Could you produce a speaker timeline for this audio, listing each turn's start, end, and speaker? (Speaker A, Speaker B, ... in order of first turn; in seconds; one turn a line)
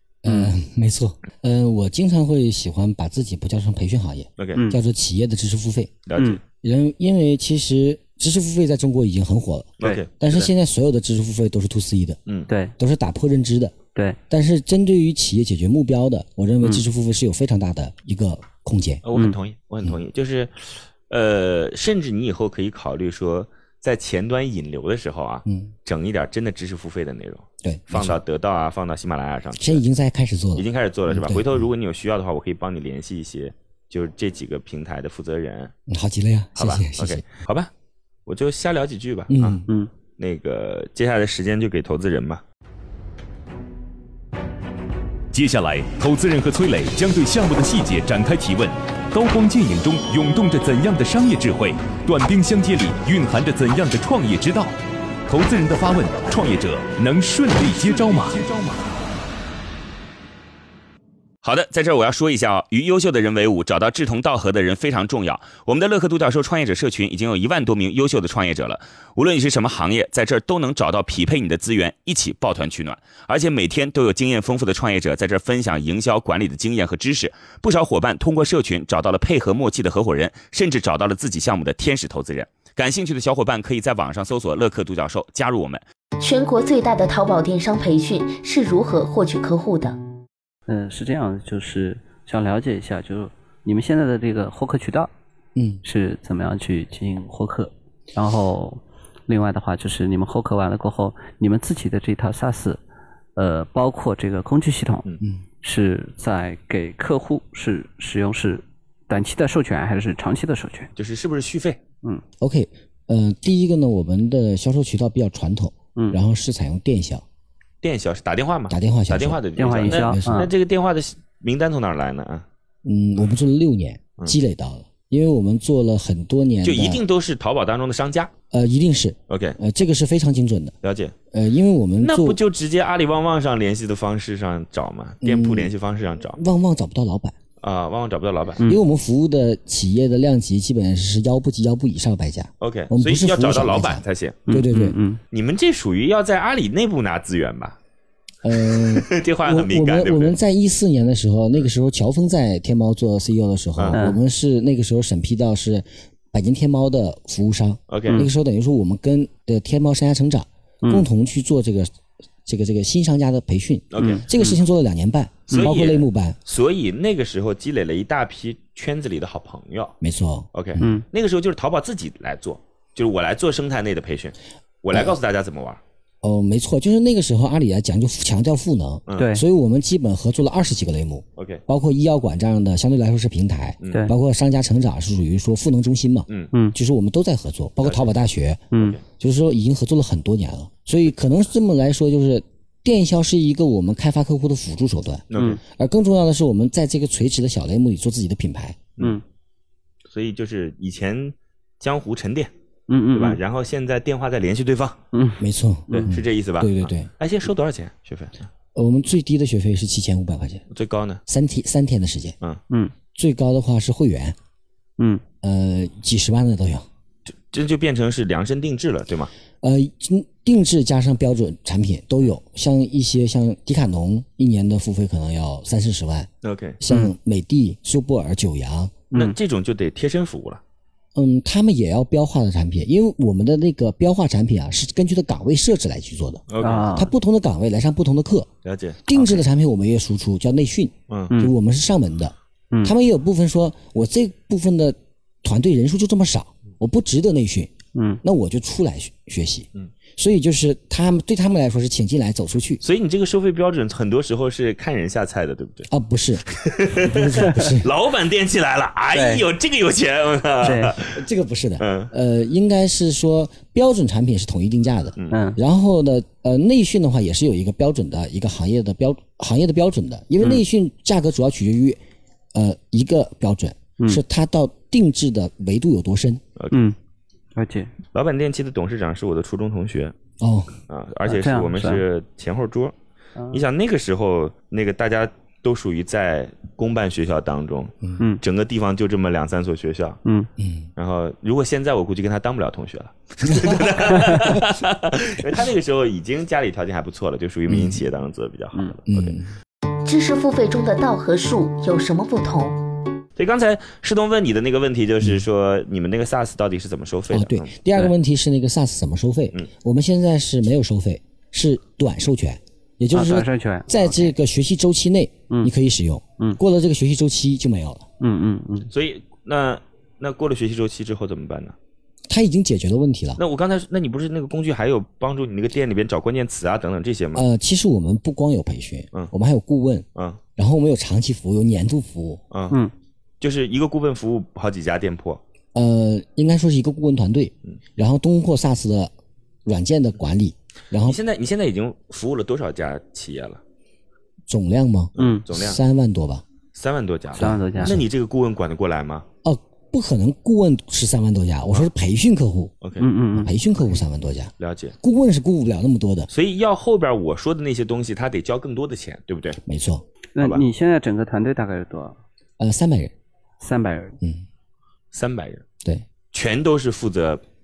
Speaker A: 0.2-6.0
Speaker B: 0.3-0.5
Speaker C: 6.1-6.4
Speaker A: 6.6-12.2
Speaker C: 9.8-10.5
Speaker B: 12.5-12.7
Speaker A: 12.8-13.7
Speaker A: 14.3-19.0
Speaker C: 19.0-29.8
Speaker A: 25.4-25.7
Speaker A: 27.6-28.2
Speaker A: 29.6-31.6
Speaker C: 30.6-35.7
Speaker A: 35.9-37.2
Speaker C: 36.5-37.7
Speaker C: 38.3-39.6
Speaker A: 39.3-39.6
Speaker C: 40.2-42.4
Speaker D: 45.3-54.7
Speaker D: 55.3-58.5
Speaker C: 61.4-85.8
Speaker E: 86.2-90.0
Speaker B: 90.7-95.1
Speaker A: 95.5-95.8
Speaker B: 95.8-102.8
Speaker B: 103.3-105.0
Speaker B: 105.6-110.9
Speaker C: 111.0-111.8
Speaker A: 112.4-117.2
Speaker C: 117.8-122.4
Speaker A: 118.7-120.4
Speaker B: 119.6-120.5
Speaker A: 122.8-127.0
Speaker C: 126.6-128.3
Speaker A: 128.5-130.8
Speaker C: 129.3-129.6
Speaker C: 130.8-131.1
Speaker A: 131.3-132.4
Speaker C: 132.0-136.4
Speaker A: 135.2-135.7
Speaker A: 136.3-137.3
Speaker C: 137.6-138.6
Speaker A: 138.6-144.9
Speaker C: 142.6-144.5
Speaker B: 144.5-145.2
Speaker C: 145.3-147.8
Speaker A: 148.4-161.9
Speaker C: 148.7-150.4
Speaker B: 153.9-154.2
Speaker C: 157.9-158.2
Speaker A: 162.4-166.4
Speaker C: 163.9-164.2
Speaker B: 164.0-164.6
Speaker C: 165.5-169.9
Speaker A: 170.0-170.9
Speaker C: 170.5-175.8
Speaker B: 170.8-171.0
Speaker A: 176.2-198.8
Speaker C: 179.1-179.3
Speaker B: 179.1-179.4
Speaker C: 181.4-181.6
Speaker C: 183.8-184.1
Speaker C: 187.8-188.1
Speaker C: 188.7-189.0
Speaker C: 195.3-195.6
Speaker C: 200.1-202.5
Speaker B: 202.9-203.4
Speaker C: 203.1-205.0
Speaker B: 205.1-206.1
Speaker A: 205.4-207.1
Speaker C: 205.9-208.4
Speaker A: 208.7-210.6
Speaker C: 210.7-211.2
Speaker A: 211.3-212.3
Speaker A: 213.1-214.3
Speaker A: 215.4-216.8
Speaker C: 217.3-219.3
Speaker A: 219.6-226.3
Speaker C: 226.4-226.8
Speaker A: 226.8-228.9
Speaker C: 229.1-230.6
Speaker A: 231.1-238.5
Speaker C: 236.5-236.9
Speaker B: 236.6-237.1
Speaker C: 238.6-239.4
Speaker A: 239.1-247.7
Speaker C: 241.1-241.3
Speaker B: 247.9-248.2
Speaker A: 248.2-252.8
Speaker C: 252.8-255.9
Speaker A: 255.9-257.9
Speaker C: 256.5-261.2
Speaker B: 259.1-259.4
Speaker B: 260.6-260.9
Speaker A: 261.0-272.0
Speaker C: 261.8-262.1
Speaker B: 265.3-265.6
Speaker A: 272.5-276.4
Speaker B: 277.6-277.9
Speaker C: 278.1-280.1
Speaker A: 280.4-280.7
Speaker C: 280.9-282.9
Speaker B: 281.2-282.0
Speaker C: 283.5-290.2
Speaker A: 290.6-290.9
Speaker C: 291.0-299.4
Speaker A: 293.4-293.8
Speaker A: 297.7-298.0
Speaker A: 299.1-299.5
Speaker E: 300.1-302.8
Speaker C: 303.4-307.7
Speaker A: 307.3-318.0
Speaker B: 313.1-314.3
Speaker B: 318.2-318.9
Speaker C: 318.9-321.7
Speaker A: 322.3-323.4
Speaker C: 323.4-327.4
Speaker A: 327.3-330.0
Speaker C: 330.1-330.4
Speaker A: 330.6-332.4
Speaker C: 332.5-332.8
Speaker C: 333.4-335.4
Speaker A: 335.7-339.1
Speaker A: 339.6-341.2
Speaker C: 341.0-343.6
Speaker A: 344.5-346.4
Speaker C: 345.1-345.8
Speaker B: 345.2-345.4
Speaker C: 346.7-349.2
Speaker B: 347.4-348.0
Speaker A: 347.4-348.0
Speaker A: 349.4-352.7
Speaker C: 352.8-353.1
Speaker B: 353.0-353.5
Speaker A: 353.3-356.3
Speaker C: 354.6-354.9
Speaker C: 356.3-359.6
Speaker A: 359.6-360.0
Speaker B: 360.4-362.2
Speaker C: 360.4-360.6
Speaker A: 362.6-363.1
Speaker B: 363.6-364.2
Speaker C: 365.1-365.6
Speaker C: 366.3-367.4